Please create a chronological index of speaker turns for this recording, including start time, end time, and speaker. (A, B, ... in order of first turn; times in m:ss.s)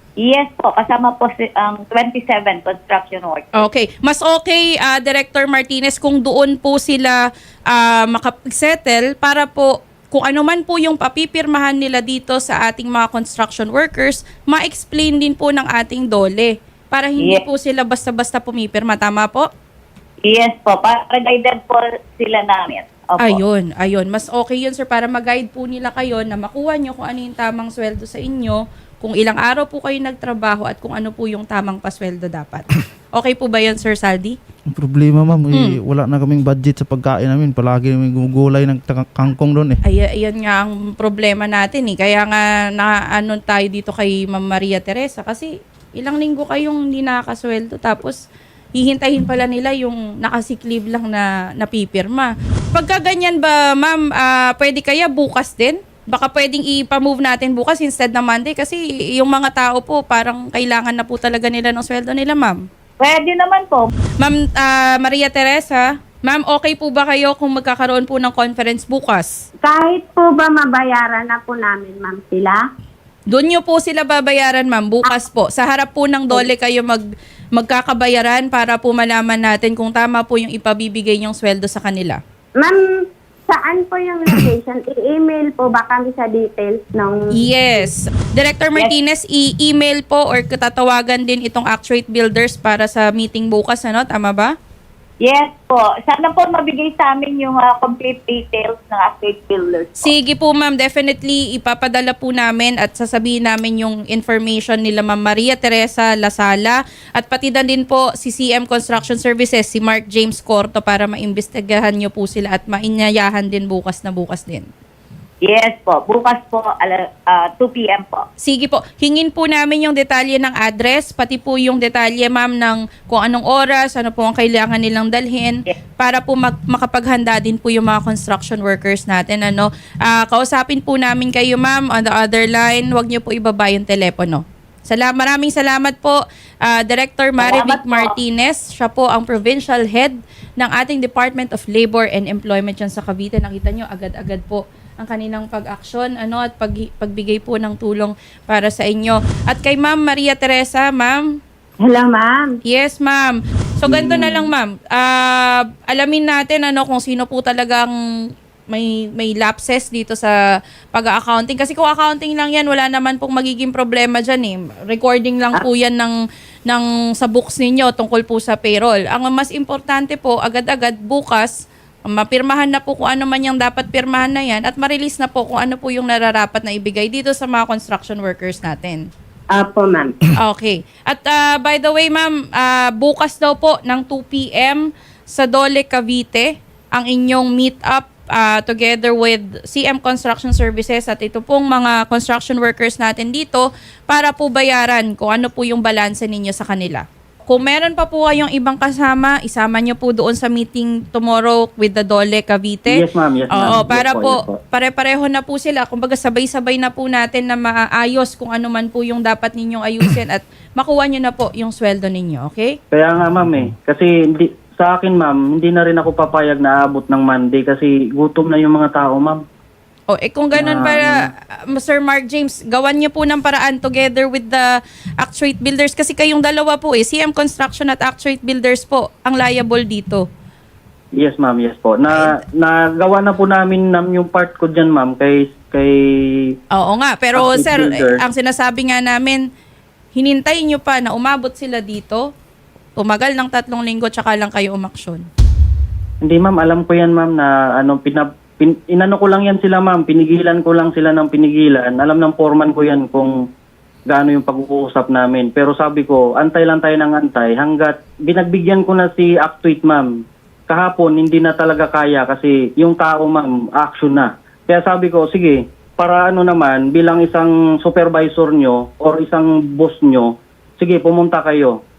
0:00.2-0:03.6 A
0:03.6-0:19.5 B
0:20.2-0:23.4 A
0:23.2-0:32.6 B
0:33.2-0:34.4 B
0:34.7-0:39.8 C
0:35.5-0:35.8 B
0:39.8-0:48.2 B
0:48.8-1:02.6 B
1:03.0-1:03.9 A
1:04.2-1:09.4 B
1:09.6-1:12.6 D
1:13.3-1:17.0 B
1:17.5-1:22.2 B
1:22.6-1:27.3 D
1:27.4-1:34.5 B
1:35.2-1:40.1 A
1:40.0-1:54.7 B
1:55.4-1:58.2 A
1:58.4-2:31.2 B
2:17.4-2:18.2 A
2:31.8-2:32.5 D
2:32.6-2:37.9 B
2:33.9-2:34.5 E
2:38.7-2:40.3 B
2:40.9-2:46.2 B
2:46.7-2:51.5 B
2:52.1-2:59.1 B
2:59.5-3:00.2 D
3:00.4-3:32.8 B
3:22.9-3:24.6 E
3:32.9-3:39.4 E
3:40.1-3:50.2 B
3:40.5-3:41.2 E
3:51.2-3:56.5 E
3:56.7-3:59.4 B
3:57.4-3:58.2 E
4:00.2-4:02.2 B
4:03.0-4:05.2 B
4:06.2-4:13.4 E
4:14.1-4:20.1 E
4:20.7-4:31.8 E